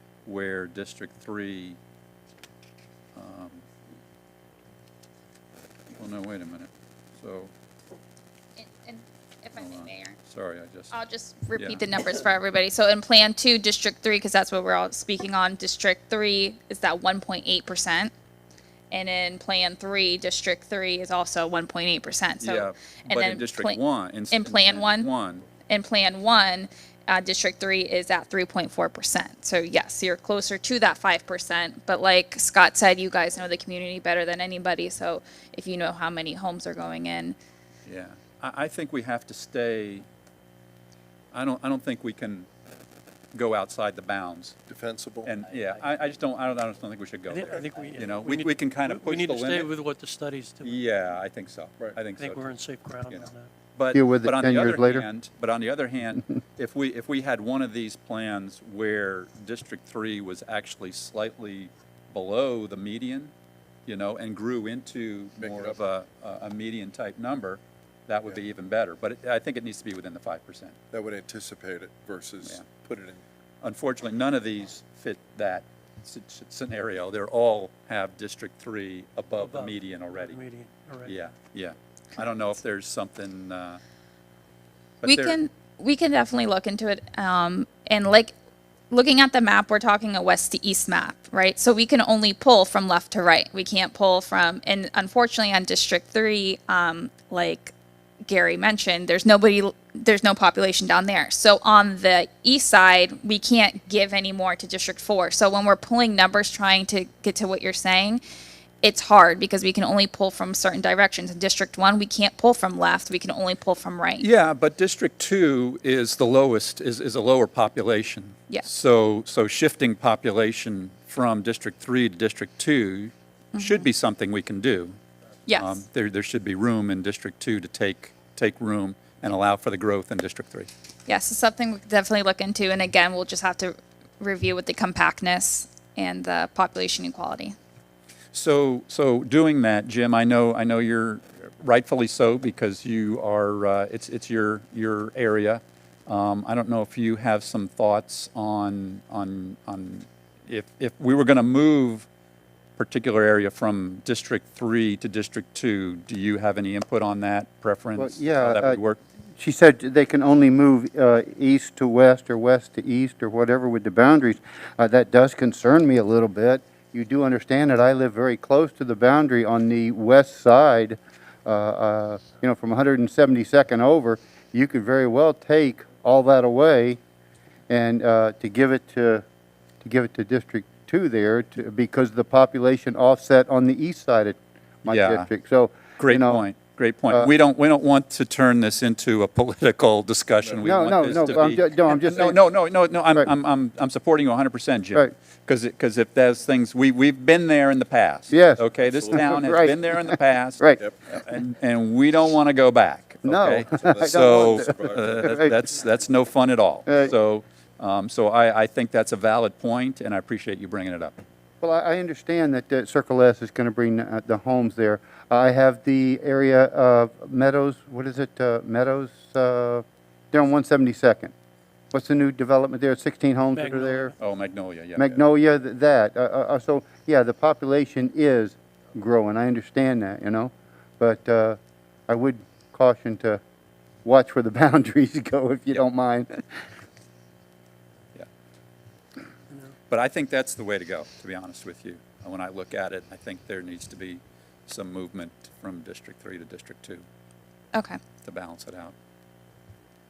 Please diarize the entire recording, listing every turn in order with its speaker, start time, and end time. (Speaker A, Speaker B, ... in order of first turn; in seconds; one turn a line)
Speaker A: 0.2-1.8
Speaker A: 3.1-3.7
Speaker A: 6.0-7.5
Speaker B: 8.6-10.2
Speaker A: 9.6-10.9
Speaker B: 10.9-18.1
Speaker A: 11.5-11.8
Speaker B: 18.9-23.8
Speaker A: 22.4-25.5
Speaker B: 24.3-25.1
Speaker B: 25.7-37.4
Speaker A: 37.9-40.1
Speaker A: 41.3-42.5
Speaker A: 43.3-44.6
Speaker C: 44.7-45.3
Speaker A: 45.2-49.7
Speaker D: 47.3-50.9
Speaker A: 50.6-52.4
Speaker D: 52.1-53.5
Speaker A: 53.1-63.3
Speaker E: 53.9-55.1
Speaker A: 63.9-70.8
Speaker C: 65.4-65.8
Speaker C: 70.9-73.2
Speaker A: 73.6-80.4
Speaker D: 79.4-81.2
Speaker A: 81.0-83.8
Speaker A: 85.0-85.4
Speaker B: 85.0-88.3
Speaker B: 88.9-97.7
Speaker B: 98.3-108.2
Speaker B: 108.8-114.3
Speaker A: 114.2-125.0
Speaker B: 123.5-123.9
Speaker B: 125.5-125.8
Speaker A: 125.6-130.7
Speaker B: 131.1-137.6
Speaker A: 138.3-152.1
Speaker A: 152.8-159.0
Speaker E: 158.0-158.8
Speaker E: 159.4-177.0
Speaker E: 177.7-179.2
Speaker E: 179.8-186.4
Speaker A: 184.8-185.3
Speaker A: 186.0-211.2
Speaker C: 190.4-191.5
Speaker E: 190.6-192.4
Speaker E: 198.3-200.8
Speaker C: 198.8-199.3
Speaker E: 203.2-205.5
Speaker C: 203.8-205.3
Speaker E: 211.6-221.3
Speaker E: 221.9-224.1
Speaker D: 223.5-224.1
Speaker A: 224.2-225.2
Speaker E: 225.0-233.4
Speaker E: 234.0-236.5
Speaker A: 239.9-247.1
Speaker B: 247.7-248.0
Speaker A: 248.2-248.9